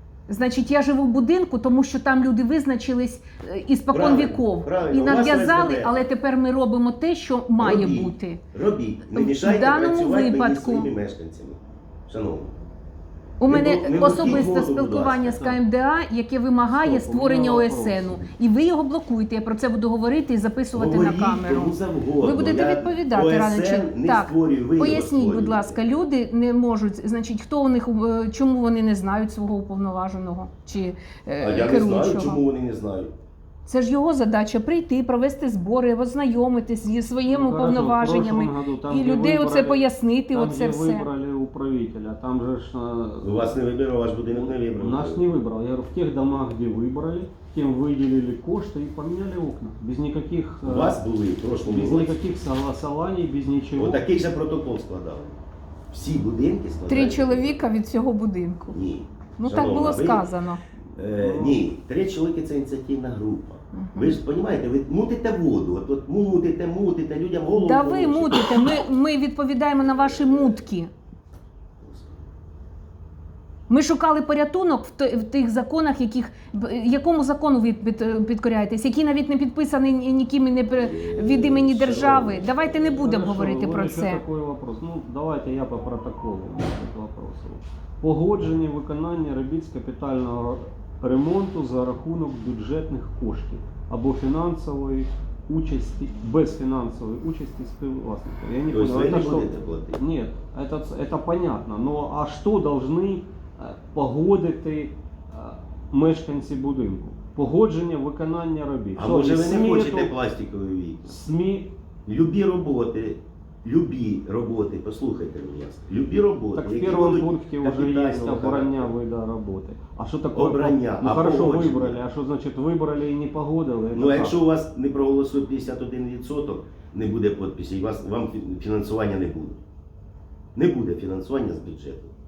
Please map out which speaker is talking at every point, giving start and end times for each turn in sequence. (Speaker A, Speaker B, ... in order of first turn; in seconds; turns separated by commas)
Speaker A: 0.3-8.4, Speaker B: 3.9-6.1, Speaker B: 7.6-12.6, Speaker A: 9.1-10.9, Speaker A: 13.4-32.4, Speaker B: 13.4-15.5, Speaker C: 16.7-18.2, Speaker B: 20.7-25.8, Speaker B: 31.4-33.1, Speaker A: 33.7-41.1, Speaker C: 37.3-43.6, Speaker B: 43.2-45.3, Speaker C: 44.3-51.0, Speaker B: 50.6-52.2, Speaker C: 51.6-54.0, Speaker B: 53.8-55.4, Speaker B: 55.9-57.6, Speaker A: 56.9-58.8, Speaker B: 58.7-60.3, Speaker A: 59.4-60.6, Speaker B: 61.0-68.8, Speaker C: 61.2-61.6, Speaker A: 63.7-64.2, Speaker A: 67.6-70.9, Speaker B: 70.0-70.5, Speaker B: 71.8-72.2, Speaker A: 73.7-84.2, Speaker B: 80.7-83.0, Speaker C: 83.0-110.2, Speaker B: 98.7-100.0, Speaker B: 109.0-111.1, Speaker C: 111.0-111.7, Speaker B: 112.1-118.9, Speaker C: 116.5-124.4, Speaker B: 120.3-122.0, Speaker B: 123.9-129.6, Speaker B: 130.6-132.1